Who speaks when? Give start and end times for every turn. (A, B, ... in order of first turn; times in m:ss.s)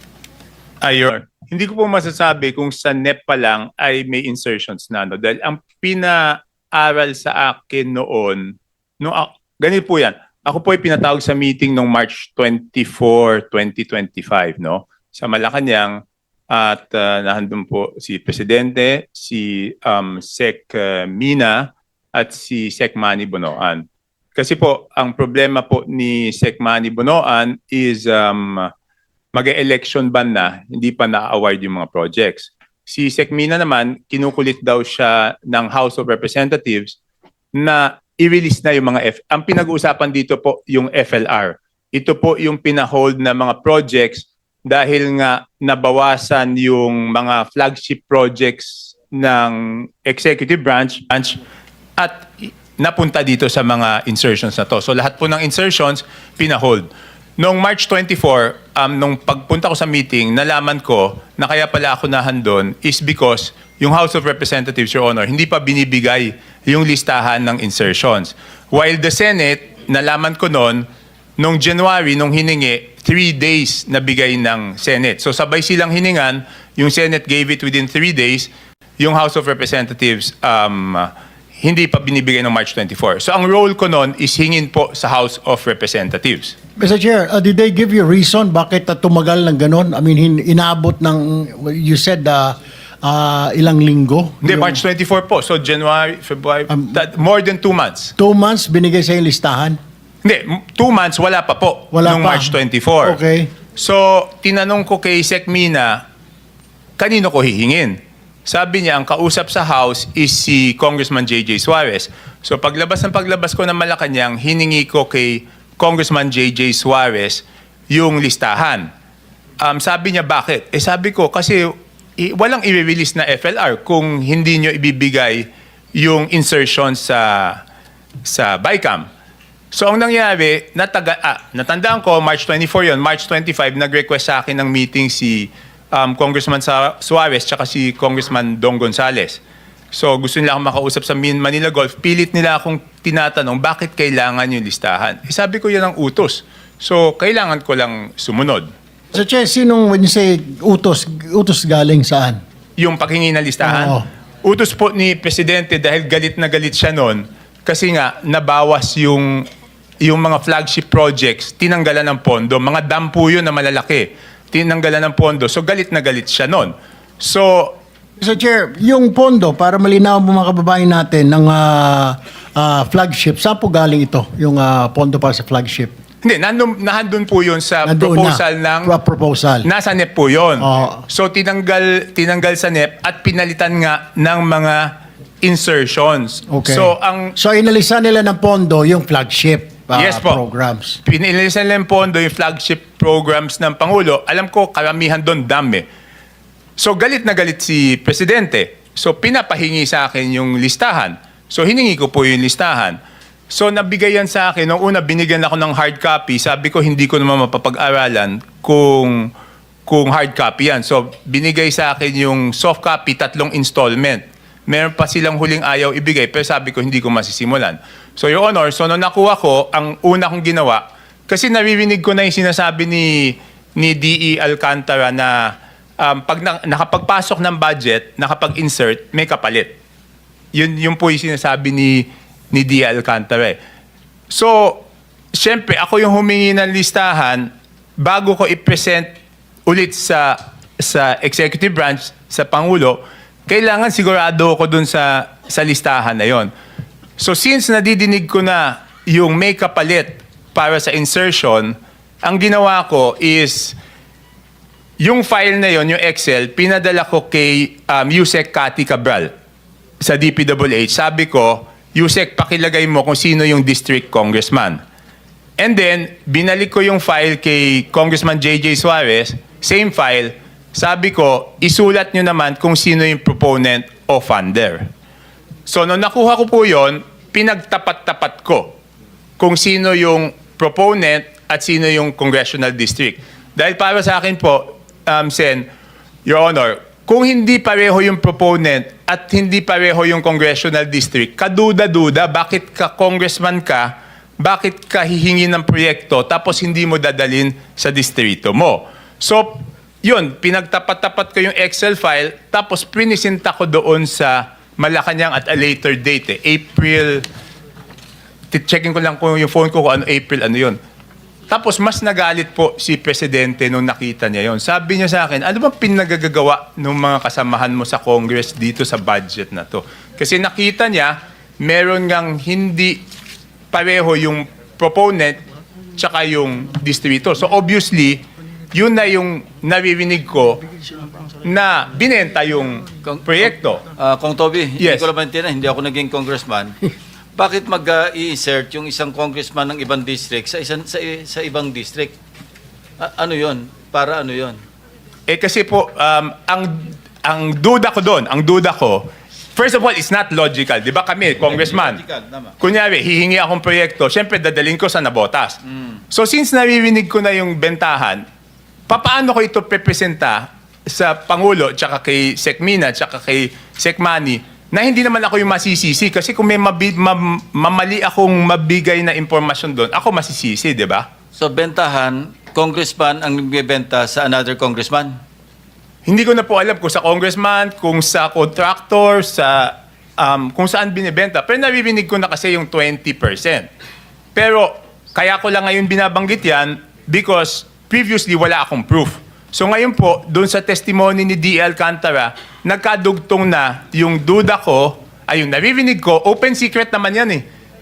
0:00.8-0:16.0 A
0:16.5-0:23.8 A
0:24.4-0:28.7 A
0:29.3-0:37.0 A
0:37.6-0:51.4 A
0:52.0-0:56.9 A
0:57.4-1:10.8 A
1:11.4-1:26.6 A
1:26.8-1:34.8 B
1:34.4-1:38.1 A
1:36.7-1:37.0 B
1:38.2-1:39.8 B
1:40.2-1:43.2 A
1:41.9-1:43.5 B
1:43.8-1:46.0 A
1:47.0-1:58.9 A
1:59.6-2:07.6 A
2:08.2-2:09.0 A
2:09.7-2:19.4 A
2:19.9-2:28.7 A
2:29.1-2:32.4 B
2:32.8-2:39.4 A
2:33.6-2:34.0 B
2:40.0-2:47.8 A
2:48.2-2:55.9 B
2:56.2-2:58.9 A
2:57.8-2:59.7 B
2:59.6-3:04.9 A
3:00.6-3:01.0 B
3:05.4-3:07.3 A
3:06.5-3:11.0 B
3:10.0-3:10.4 A
3:11.0-3:15.8 A
3:16.8-3:23.0 A
3:23.5-3:29.3 A
3:29.9-3:49.7 A
3:50.5-3:53.6 A
3:54.3-3:54.8 A
3:55.3-3:59.1 A
3:59.7-4:06.5 A
4:07.2-4:13.8 A
4:15.0-4:19.3 A
4:20.0-4:24.8 A
4:25.6-4:34.9 A
4:35.7-4:38.8 A
4:39.4-4:45.6 A
4:46.2-5:07.2 A
5:08.5-5:10.8 A
5:11.5-5:23.0 A
5:23.7-5:25.4 A
5:26.0-5:28.2 A
5:28.7-5:30.6 A
5:31.4-5:33.8 A
5:33.9-5:36.8 C
5:34.8-5:35.0 A
5:37.4-5:42.1 C
5:43.0-5:44.6 C
5:45.3-5:49.0 A
5:49.6-5:52.0 A
5:51.4-5:52.5 C
5:52.6-5:55.6 A
5:56.1-5:58.2 A
5:58.9-6:11.0 A
6:11.4-6:15.1 C
6:16.1-6:23.7 A
6:24.3-6:37.4 A